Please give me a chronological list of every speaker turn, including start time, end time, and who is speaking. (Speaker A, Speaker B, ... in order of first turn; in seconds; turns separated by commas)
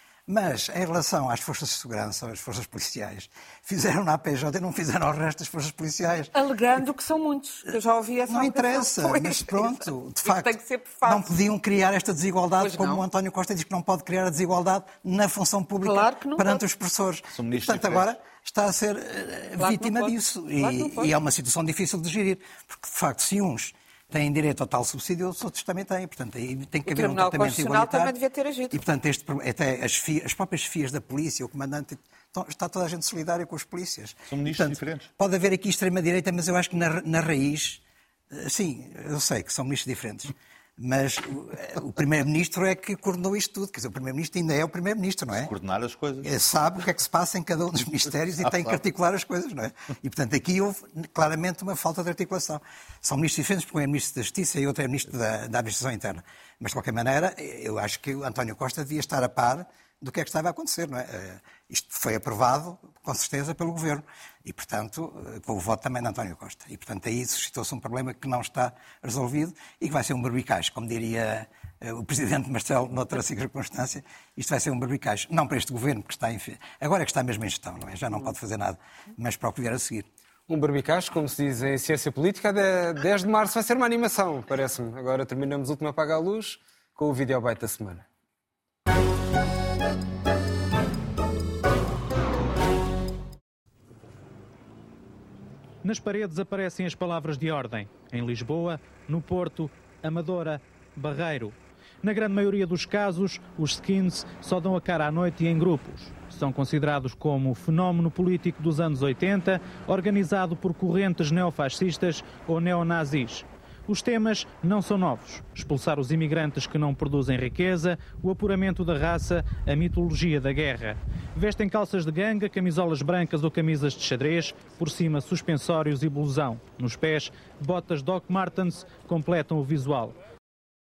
Speaker A: 0.3-6.3, Speaker B: 6.3-11.3, Speaker A: 8.3-28.1, Speaker B: 12.6-13.1, Speaker B: 15.8-16.6, Speaker C: 17.3-18.1, Speaker B: 19.6-21.1, Speaker B: 26.8-28.8, Speaker A: 28.7-45.5, Speaker C: 34.3-35.1, Speaker C: 45.3-46.5, Speaker A: 46.2-80.1, Speaker C: 48.4-48.8, Speaker D: 80.5-88.0, Speaker E: 95.8-130.1